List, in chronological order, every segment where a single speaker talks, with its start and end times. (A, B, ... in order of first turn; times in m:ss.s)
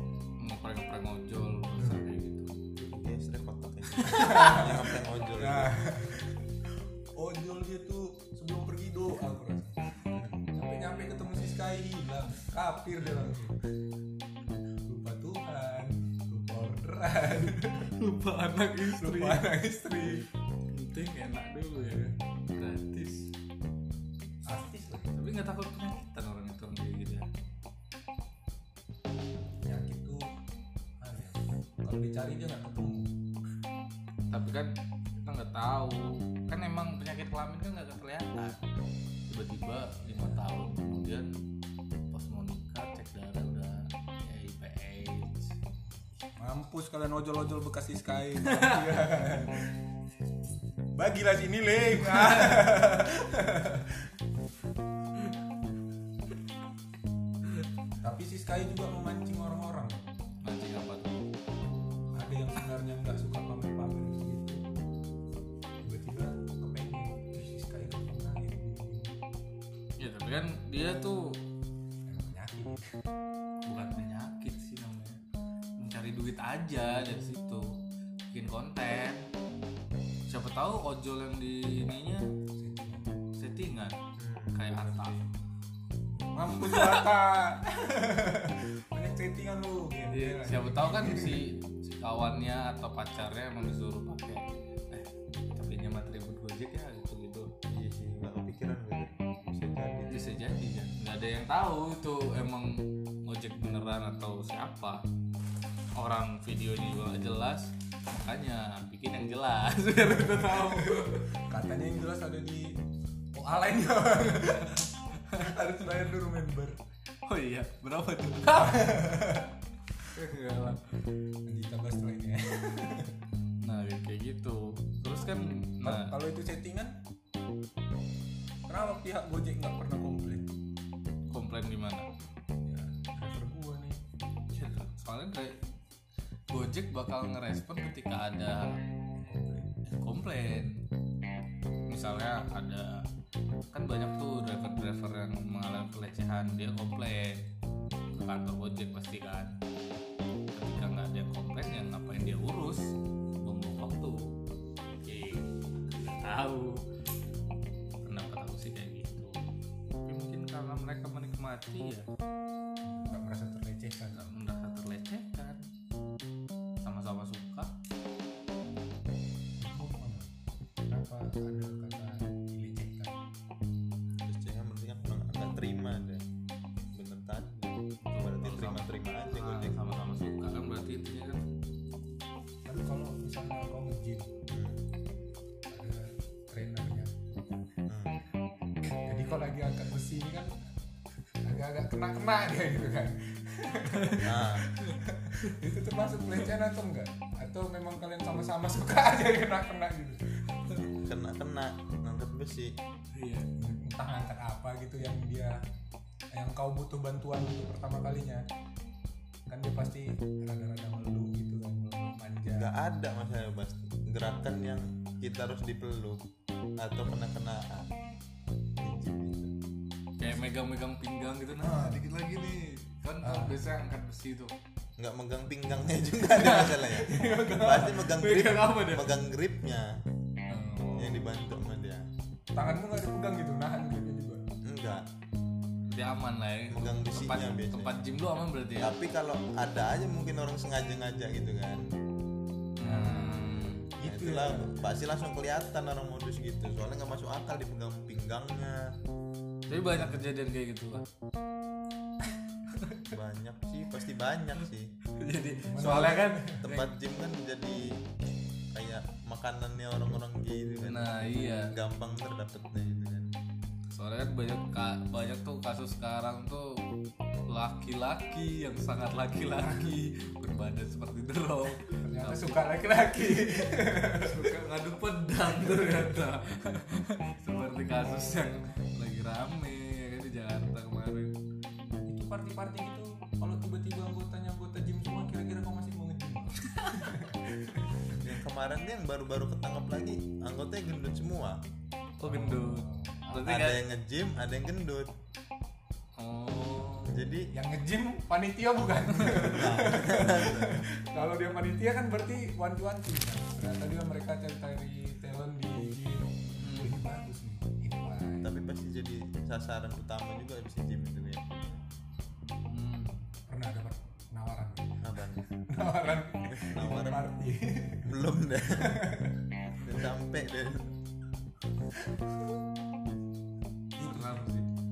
0:00.4-0:02.6 A
0:02.8-0:05.7 B
0:04.0-0:04.6 A
0:04.0-0:13.6 C
0:14.8-0:17.9 C
0:17.9-0:19.5 A
0:18.9-0:20.3 C
0:20.7-0:23.3 A
0:21.8-0:22.2 C
0:24.4-0:25.2 C
0:25.1-0:27.3 A
0:29.6-0:30.3 C
0:31.0-0:33.2 C
0:34.3-0:38.6 A
0:39.3-0:41.4 A
0:40.1-0:40.4 C
0:42.1-0:45.5 A
0:46.2-0:49.8 C
0:48.4-0:48.9 A
0:50.9-0:54.1 C
0:52.0-0:52.6 A
0:58.0-1:00.1 C
1:00.4-1:01.1 A
1:02.1-1:04.6 C
1:05.8-1:09.2 C
1:10.0-1:11.4 A
1:12.1-1:13.0 C
1:13.7-1:15.2 A
1:15.8-1:17.8 A
1:18.3-1:19.3 A
1:20.3-1:22.3 A
1:22.6-1:23.1 C
1:23.4-1:24.0 A
1:24.2-1:25.2 B
1:24.5-1:25.2 A
1:26.3-1:31.5 C
1:26.6-1:27.0 A
1:30.1-1:37.5 A
1:37.7-1:40.3 B
1:40.1-1:45.0 A
1:46.0-1:51.3 A
1:50.1-1:52.8 C
1:53.3-1:56.8 C
1:57.3-1:59.0 A
1:58.5-1:59.6 C
2:00.0-2:01.0 A
2:01.5-2:03.2 C
2:03.6-2:06.1 A
2:05.8-2:07.0 C
2:08.7-2:10.5 C
2:11.3-2:12.1 A
2:12.6-2:14.0 C
2:14.5-2:15.6 A
2:16.5-2:18.8 A
2:19.2-2:19.7 C
2:19.9-2:20.8 A
2:21.9-2:23.1 A
2:23.7-2:27.5 A
2:28.1-2:29.6 A
2:30.5-2:34.4 A
2:34.9-2:36.8 A
2:38.0-2:39.5 A
2:40.0-2:42.1 A
2:42.8-2:44.4 C
2:44.3-2:45.7 A
2:46.8-2:47.7 A
2:49.6-2:50.3 C
2:50.9-2:53.2 C
2:54.2-2:56.2 B
2:56.9-2:59.8 B
2:58.0-3:01.5 A
3:02.7-3:04.5 C
3:04.5-3:04.8 B
3:05.7-3:07.2 C
3:07.9-3:08.2 B
3:08.8-3:10.7 C
3:11.4-3:20.9 C
3:14.0-3:14.2 A
3:14.2-3:14.7 B
3:14.8-3:15.6 A
3:21.0-3:22.7 B
3:23.1-3:23.5 A
3:23.6-3:25.6 C
3:26.3-3:28.5 C
3:29.5-3:32.7 C
3:32.6-3:36.2 B
3:36.8-3:37.9 B
3:38.8-3:39.5 B
3:40.2-3:44.5 A
3:41.6-3:42.0 C
3:43.2-3:43.6 C
3:45.0-3:50.0 B
3:46.4-3:48.2 C
3:46.4-3:46.8 A
3:47.9-3:49.1 A
3:50.5-3:51.2 A
3:51.0-3:52.1 B
3:52.6-3:54.4 C
3:54.6-3:55.0 B
3:55.9-3:59.0 A
3:56.7-3:58.0 B
3:58.8-4:01.9 B
4:02.8-4:03.9 A
4:02.8-4:04.8 C
4:04.0-4:08.9 B
4:09.7-4:11.1 A
4:09.7-4:10.2 C
4:13.1-4:14.9 B
4:15.2-4:16.9 A
4:15.6-4:16.7 C
4:16.6-4:18.1 B
4:18.7-4:23.3 B
4:20.8-4:21.7 A
4:23.9-4:26.8 A
4:27.5-4:32.6 A
4:29.6-4:30.0 C
4:32.0-4:34.6 C
4:34.1-4:41.3 A
4:35.5-4:36.3 C
4:42.0-4:48.2 C
4:46.6-4:47.2 A
4:48.2-4:51.6 B
4:52.2-4:53.8 A
4:52.2-4:53.4 C
4:53.3-4:55.1 B
4:56.2-4:57.3 A
4:57.1-4:57.5 B
4:57.5-5:08.6 C
4:59.3-5:00.8 B
5:06.5-5:07.0 A
5:08.4-5:11.8 B
5:12.7-5:13.3 A
5:13.5-5:19.5 C
5:15.0-5:15.5 B
5:16.5-5:17.3 B
5:18.1-5:19.0 B
5:19.8-5:20.9 B
5:24.0-5:24.5 C
5:24.0-5:24.7 A